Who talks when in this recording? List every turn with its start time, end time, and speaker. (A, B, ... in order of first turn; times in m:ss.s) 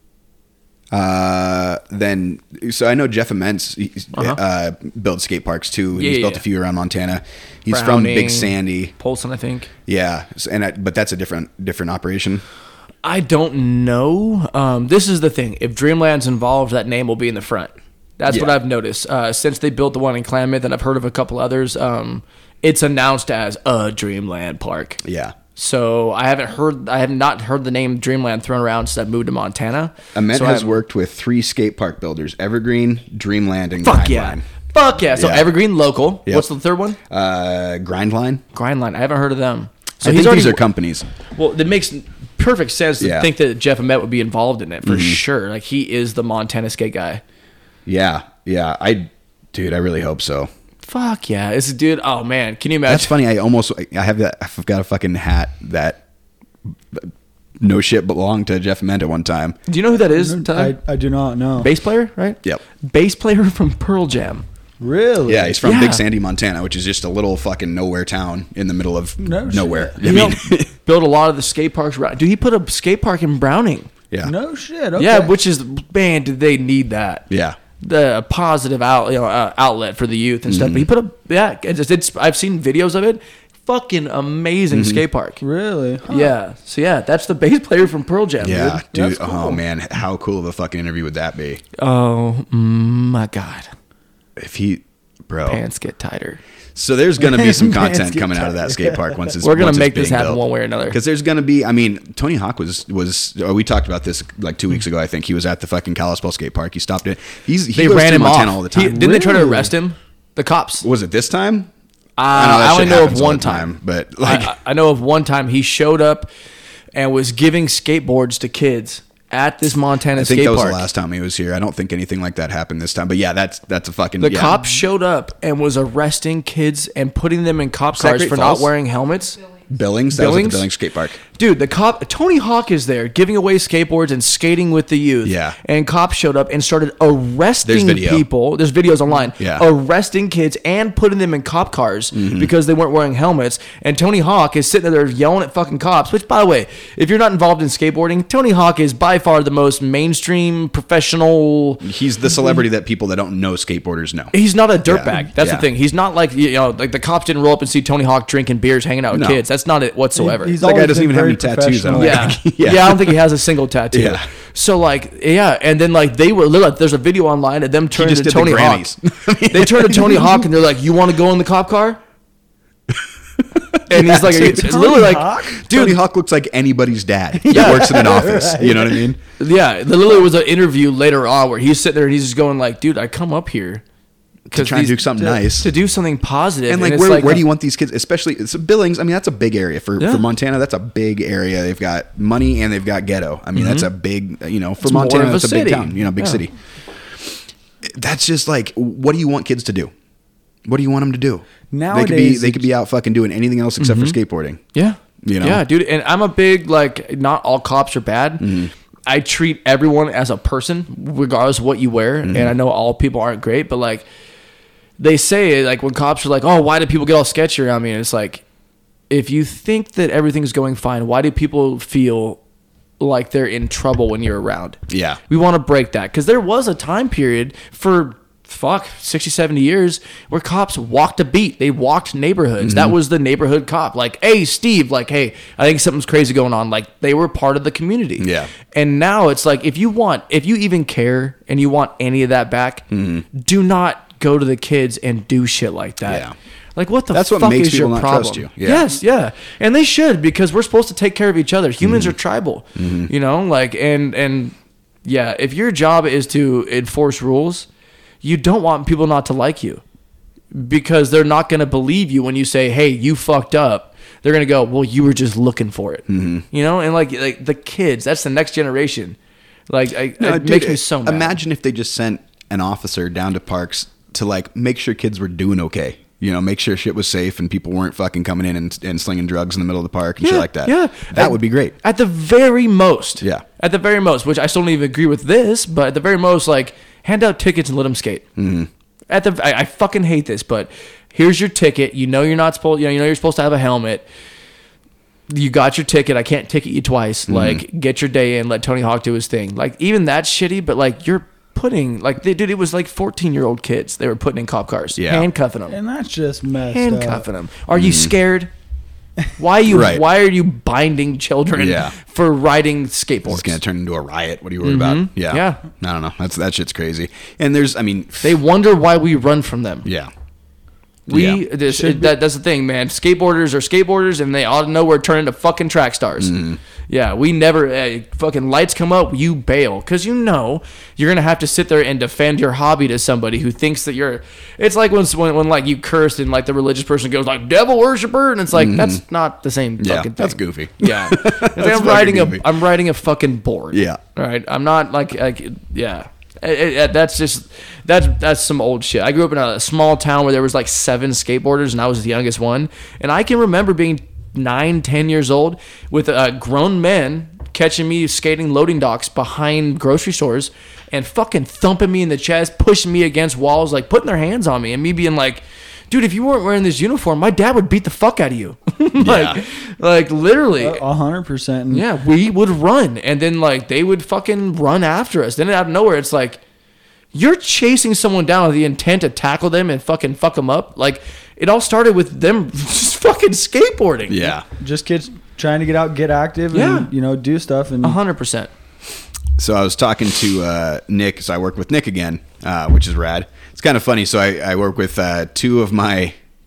0:00.9-0:08.9 A
0:05.9-0:06.4 B
0:07.7-0:09.7 B
0:09.9-0:12.4 A
0:13.0-0:25.0 B
0:18.3-0:18.5 A
0:25.0-0:25.3 A
0:25.6-0:30.8 B
0:30.1-0:34.4 A
0:33.8-0:37.0 B
0:35.2-0:35.5 A
0:37.1-0:38.4 A
0:38.5-0:40.6 B
0:40.0-0:41.0 A
0:41.3-0:47.2 B
0:43.0-0:43.3 A
0:44.8-0:45.2 A
0:47.9-0:50.5 A
0:50.9-0:53.1 B
0:52.9-0:56.0 A
0:56.9-0:59.6 A
0:59.7-1:00.7 B
1:00.0-1:01.7 C
1:01.6-1:04.4 B
1:04.8-1:05.6 C
1:05.3-1:10.7 A
1:05.6-1:06.0 B
1:09.2-1:10.0 C
1:10.0-1:13.9 B
1:14.2-1:15.3 C
1:15.0-1:17.2 B
1:17.3-1:17.6 A
1:17.8-1:25.4 B
1:20.5-1:20.9 A
1:24.7-1:25.0 A
1:25.4-1:26.3 C
1:26.1-1:28.8 B
1:28.4-1:31.6 A
1:28.9-1:29.6 C
1:31.8-1:33.7 B
1:34.4-1:35.6 A
1:35.5-1:36.4 B
1:36.7-1:49.5 A
1:37.2-1:39.4 C
1:39.4-1:41.0 B
1:47.7-1:50.8 B
1:48.9-1:49.7 C
1:50.8-1:51.7 A
1:52.2-1:56.3 B
1:52.3-1:54.5 A
1:56.9-2:00.8 B
2:00.2-2:04.6 A
2:04.2-2:09.4 B
2:08.0-2:08.7 A
2:09.7-2:11.2 A
2:10.1-2:10.7 B
2:11.3-2:31.8 B
2:15.2-2:15.6 A
2:17.6-2:18.2 A
2:19.4-2:19.6 A
2:22.1-2:22.5 A
2:31.8-2:34.3 A
2:34.3-2:40.5 B
2:34.9-2:35.6 A
2:39.1-2:39.4 A
2:40.2-2:42.4 C
2:40.6-2:43.2 A
2:41.9-2:48.9 B
2:43.9-2:44.3 A
2:47.9-2:50.4 A
2:49.5-2:52.0 B
2:53.7-2:54.9 A
2:53.9-2:56.0 B
2:54.3-2:55.7 C
2:55.6-2:59.2 A
2:57.3-2:59.0 C
2:57.5-2:58.0 B
2:59.4-3:03.8 B
3:04.5-3:05.7 A
3:04.5-3:07.4 B
3:06.7-3:16.5 A
3:10.0-3:10.2 B
3:13.5-3:13.9 B
3:14.8-3:16.4 B
3:17.2-3:19.9 A
3:20.6-3:24.6 A
3:21.7-3:22.7 C
3:23.8-3:24.2 B
3:24.7-3:28.5 B
3:25.2-3:25.6 A
3:28.4-3:28.7 A
3:29.1-3:34.0 B
3:32.2-3:32.5 A
3:35.0-3:38.4 B
3:39.1-3:42.4 B
3:43.0-4:14.5 B
3:44.9-3:45.2 A
3:52.6-3:52.9 A
3:58.2-3:58.5 A
4:02.9-4:03.2 A
4:06.0-4:06.3 A
4:07.1-4:08.9 A
4:11.8-4:12.1 A
4:12.8-4:13.1 A
4:15.0-4:17.6 B
4:18.2-4:19.8 B
4:20.5-4:29.2 B
4:26.1-4:26.4 A
4:29.7-4:31.4 B
4:30.2-4:41.7 A
4:40.2-4:48.3 B
4:48.4-4:48.7 A
4:49.1-4:54.0 B
4:55.3-5:05.8 B
4:57.3-4:57.6 A
5:05.0-5:05.2 A
5:05.7-5:07.2 C
5:06.7-5:08.5 B
5:07.7-5:08.1 A
5:09.4-5:13.6 B
5:09.7-5:10.0 A
5:11.5-5:11.9 A
5:13.3-5:18.3 A
5:14.6-5:15.6 B
5:18.2-5:19.8 B
5:19.8-5:20.1 A
5:21.1-5:26.4 B
5:21.1-5:21.4 A
5:21.7-5:22.2 C
5:26.2-5:26.6 A
5:26.9-6:10.8 B
5:38.5-5:39.0 A
5:39.8-5:42.4 A
5:43.7-5:44.0 A
6:09.0-6:09.4 A
6:10.6-6:11.9 C
6:11.7-6:16.4 B
6:17.1-6:24.3 B
6:24.1-6:24.4 A
6:24.6-6:28.0 C
6:26.5-6:26.9 B
6:27.8-6:28.5 B
6:29.4-6:36.2 A